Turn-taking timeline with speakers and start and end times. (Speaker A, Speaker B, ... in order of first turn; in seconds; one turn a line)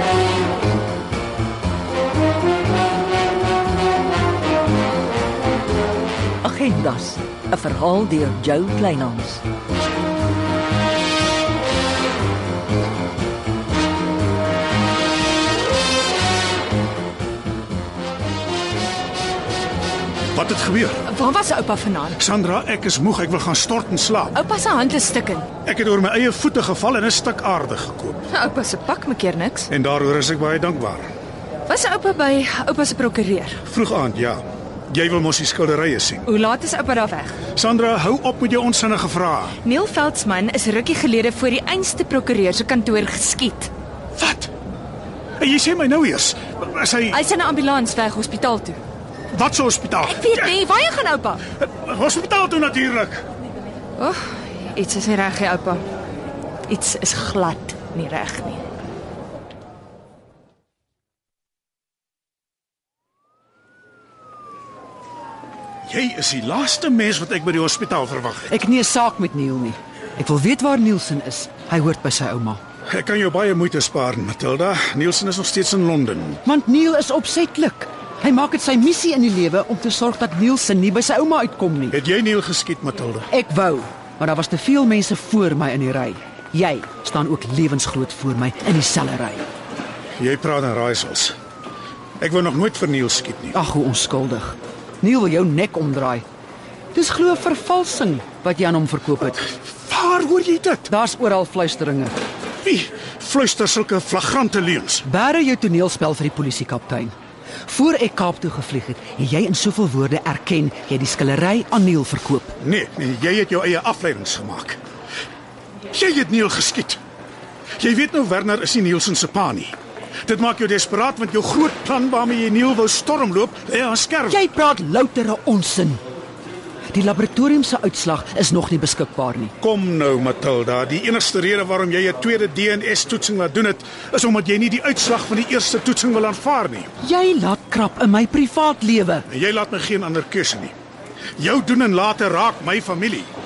Speaker A: 6.4-9.4
Speaker B: 20.3-21.0
Speaker C: 21.1-22.2
Speaker B: 22.2-24.4
Speaker C: 24.3-25.5
Speaker B: 25.7-28.3
Speaker C: 28.3-29.7
Speaker B: 29.7-31.1
Speaker C: 31.7-33.6
Speaker B: 33.7-36.3
Speaker C: 36.3-37.4
Speaker B: 37.6-39.6
Speaker C: 39.6-43.7
Speaker B: 44.2-44.5
Speaker B: 45.4-47.2
Speaker C: 47.1-48.8
Speaker B: 49.3-50.6
Speaker C: 50.0-51.4
Speaker B: 51.6-53.2
Speaker C: 54.0-55.8
Speaker C: 56.7-58.6
Speaker B: 65.9-68.5
Speaker D: 68.5-72.6
Speaker B: 72.9-76.4
Speaker D: 76.5-82.0
Speaker B: 81.9-83.3
Speaker D: 83.3-89.5
Speaker B: 90.2-91.3
Speaker B: 92.2-93.6
Speaker D: 93.5-96.2
Speaker D: 96.9-99.5
Speaker B: 99.7-100.9
Speaker D: 100.9-102.1
Speaker B: 102.6-105.0
Speaker D: 105.0-107.1
Speaker D: 107.7-112.6
Speaker B: 112.6-114.8
Speaker B: 115.9-117.0
Speaker B: 117.8-119.8
Speaker B: 120.3-124.4
Speaker D: 124.3-126.0
Speaker D: 126.9-129.5
Speaker B: 129.6-136.9
Speaker D: 137.0-139.2
Speaker B: 139.3-140.7
Speaker B: 141.4-143.3